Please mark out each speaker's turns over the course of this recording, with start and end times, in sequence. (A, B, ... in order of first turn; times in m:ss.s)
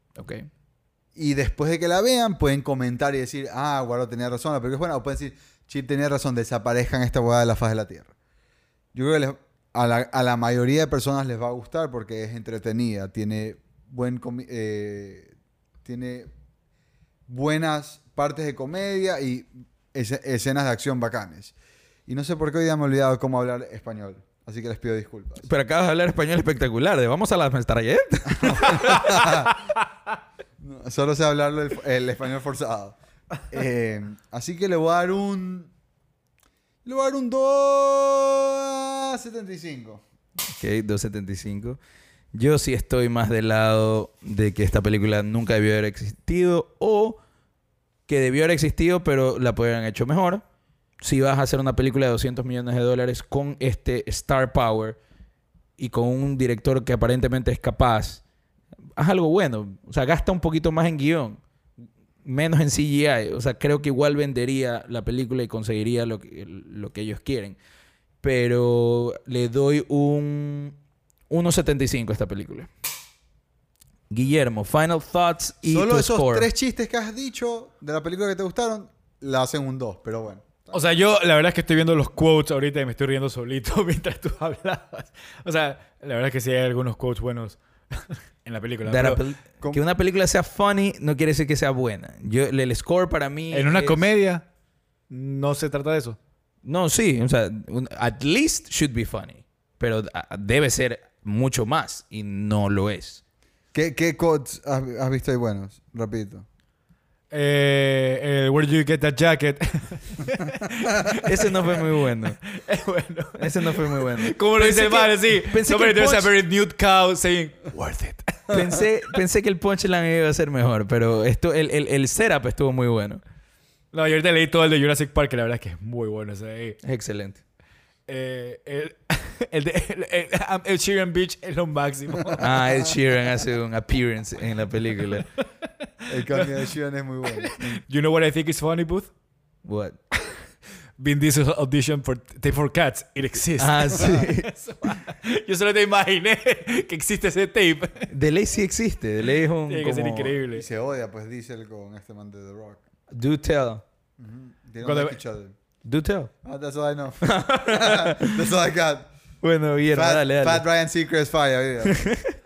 0:00.2-0:00.5 A
0:01.1-0:08.1 B
0:08.9-0:15.3 B
0:15.8-0:16.3 B
0:17.3-0:21.5 B
0:22.1-0:25.5 B
0:25.4-0:29.3 A
0:28.3-0:29.6 B
0:30.6-0:33.0 B
0:33.5-0:35.7 B
0:36.8-0:40.0 B
0:40.5-0:41.8 A
0:42.3-0:47.2 A
0:48.1-0:50.4 A
0:51.0-0:55.0 A
0:55.8-0:58.2 A
0:59.0-1:01.4 A
1:02.2-1:07.6 A
1:08.2-1:10.8 A
1:11.3-1:12.7 A
1:14.1-1:16.5 A
1:15.6-1:20.8 B
1:20.7-1:29.2 C
1:28.8-1:34.0 A
1:33.5-1:34.4 C
1:35.1-1:36.2 C
1:36.6-1:43.2 A
1:43.7-1:46.4 B
1:47.3-1:51.8 C
1:51.1-1:52.4 A
1:52.4-1:58.5 C
1:53.4-1:56.3 A
1:58.5-2:03.2 A
2:03.9-2:06.8 C
2:06.8-2:07.4 A
2:08.1-2:12.6 C
2:12.4-2:15.3 A
2:16.1-2:17.8 B
2:17.4-2:19.1 C
2:19.6-2:20.0 A
2:21.0-2:28.1 C
2:23.6-2:24.6 A
2:24.0-2:24.3 B
2:28.1-2:30.3 A
2:29.7-2:30.6 C
2:30.5-2:32.8 B
2:33.1-2:33.8 A
2:34.2-2:35.5 B
2:34.8-2:35.2 C
2:35.8-2:36.3 A
2:36.4-2:39.1 B
2:37.2-2:38.4 A
2:39.4-2:40.6 A
2:39.9-2:42.0 B
2:41.8-2:42.3 A